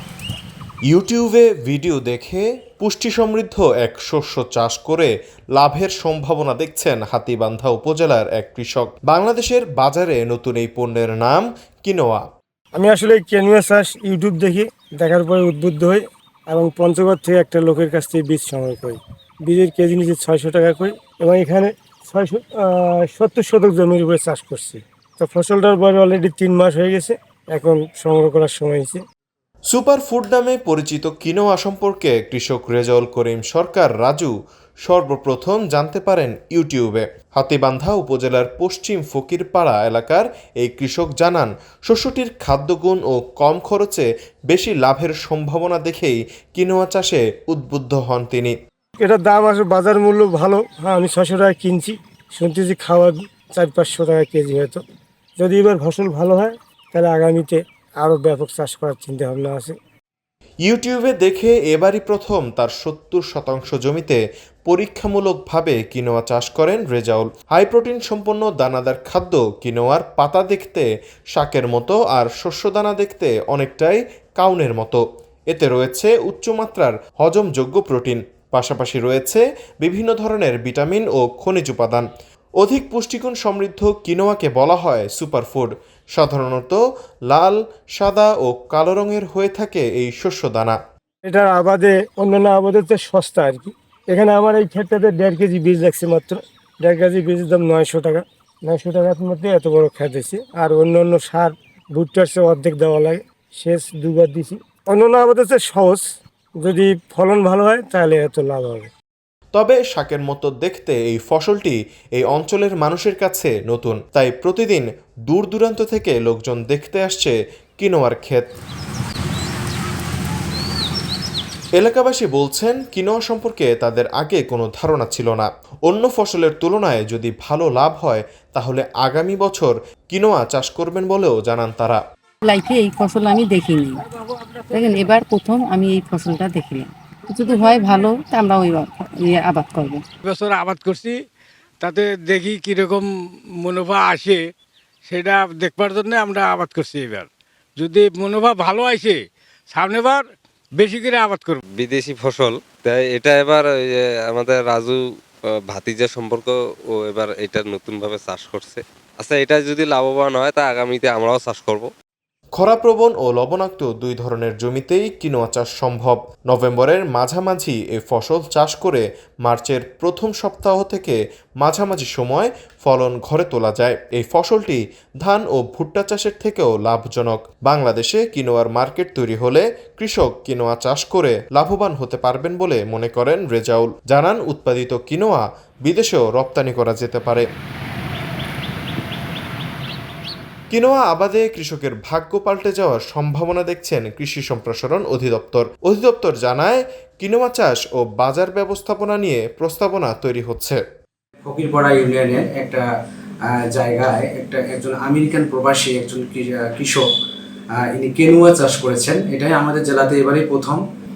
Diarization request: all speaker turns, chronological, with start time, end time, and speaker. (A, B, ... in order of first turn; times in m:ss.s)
0:00.9-0:12.2 A
0:12.8-0:29.0 B
0:29.7-0:34.3 A
0:34.9-0:48.6 A
0:49.0-0:54.8 B
0:55.4-0:59.8 B
1:00.6-1:22.1 A
1:22.6-1:30.8 A
1:31.3-1:46.1 B
1:46.6-1:48.9 B
1:49.5-1:58.5 A
2:01.8-2:12.0 A
2:12.4-2:14.0 C
2:14.1-2:15.0 D
2:14.8-2:20.0 C
2:17.5-2:18.0 D
2:20.2-2:21.2 D
2:21.8-2:24.4 D
2:25.1-2:27.3 D
2:27.8-2:31.6 D
2:31.8-2:35.0 E
2:35.7-2:41.9 E
2:42.6-3:07.5 A
3:10.7-3:20.8 A
3:21.4-3:22.9 F
3:23.7-3:27.1 F
3:27.9-3:30.8 F